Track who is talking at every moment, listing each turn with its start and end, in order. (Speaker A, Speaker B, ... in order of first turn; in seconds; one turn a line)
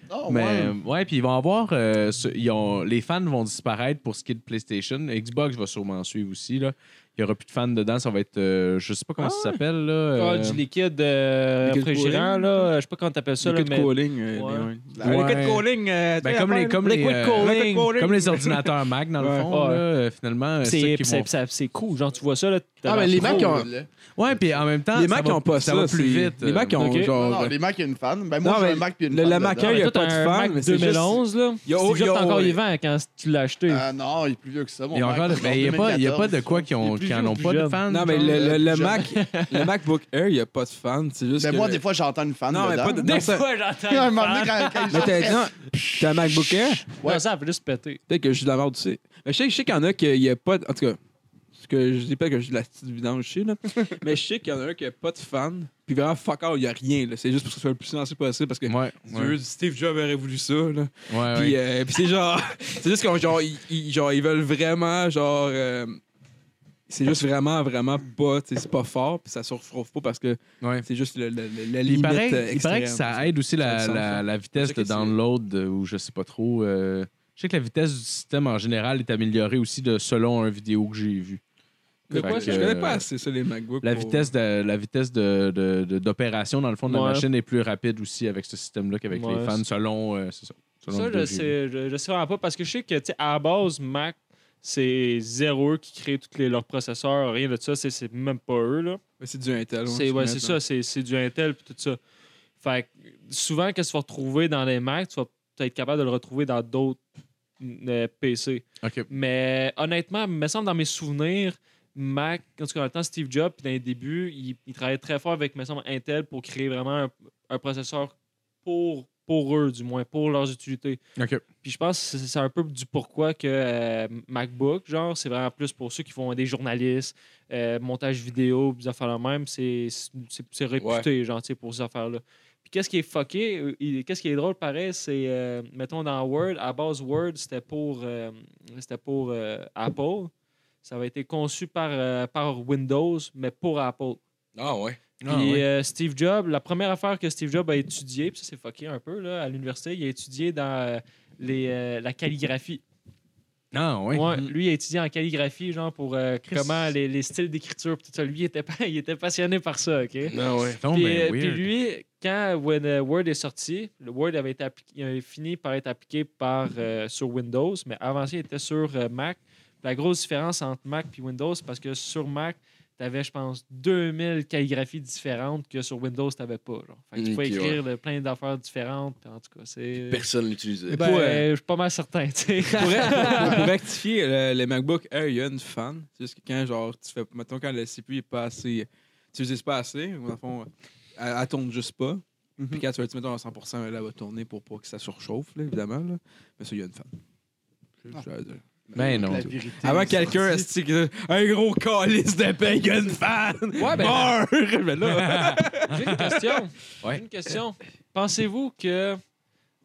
Speaker A: 0.1-0.8
Speaker B: 0.3-10.6
Speaker C: 9.2-9.6
Speaker D: 10.2-14.7
Speaker C: 11.6-12.7
Speaker C: 13.4-19.5
Speaker A: 14.9-15.3
Speaker B: 15.0-15.7
Speaker B: 16.2-21.3
Speaker D: 16.8-17.9
Speaker D: 19.5-19.8
Speaker D: 20.6-23.5
Speaker C: 22.8-23.7
Speaker A: 23.1-23.9
Speaker B: 24.1-26.8
Speaker C: 24.9-27.6
Speaker D: 26.8-27.1
Speaker A: 27.1-29.8
Speaker C: 28.4-32.6
Speaker D: 29.6-33.9
Speaker A: 33.7-36.7
Speaker B: 34.9-38.6
Speaker D: 36.8-37.8
Speaker C: 37.9-41.8
Speaker A: 38.3-39.0
Speaker D: 39.0-39.7
Speaker A: 41.4-43.1
Speaker C: 42.5-43.5
Speaker D: 43.0-45.4
Speaker A: 43.8-46.3
Speaker C: 44.9-46.9
Speaker A: 46.9-47.2
Speaker D: 46.9-48.0
Speaker C: 48.1-51.0
Speaker C: 51.5-66.0
Speaker B: 58.7-59.4
Speaker B: 61.1-61.6
Speaker C: 66.9-75.2
Speaker B: 70.6-70.8
Speaker B: 71.8-81.4
Speaker C: 82.1-84.3
Speaker D: 82.1-82.7
Speaker B: 82.1-83.0
Speaker B: 83.8-91.5
Speaker D: 86.9-87.3
Speaker D: 89.1-89.6
Speaker D: 90.9-99.0
Speaker C: 99.2-100.6
Speaker D: 99.9-102.0
Speaker D: 102.6-107.0
Speaker D: 107.6-121.0
Speaker B: 108.8-109.1
Speaker B: 121.2-121.4
Speaker D: 121.6-140.3
Speaker E: 130.8-131.1
Speaker D: 140.8-144.2
Speaker E: 144.6-145.0
Speaker B: 145.2-145.6
Speaker D: 145.2-152.8
Speaker B: 153.7-154.4
Speaker D: 154.1-160.3
Speaker B: 156.5-156.9
Speaker E: 160.3-160.8
Speaker B: 160.8-161.7
Speaker D: 160.9-180.3
Speaker E: 177.2-177.8
Speaker E: 180.1-181.1
Speaker C: 180.9-181.4
Speaker D: 180.9-183.7
Speaker C: 182.8-197.1
Speaker C: 198.1-198.6
Speaker A: 198.9-200.7
Speaker B: 198.9-199.6
Speaker C: 199.3-206.3
Speaker D: 203.8-204.3
Speaker B: 205.0-206.3
Speaker D: 205.9-209.2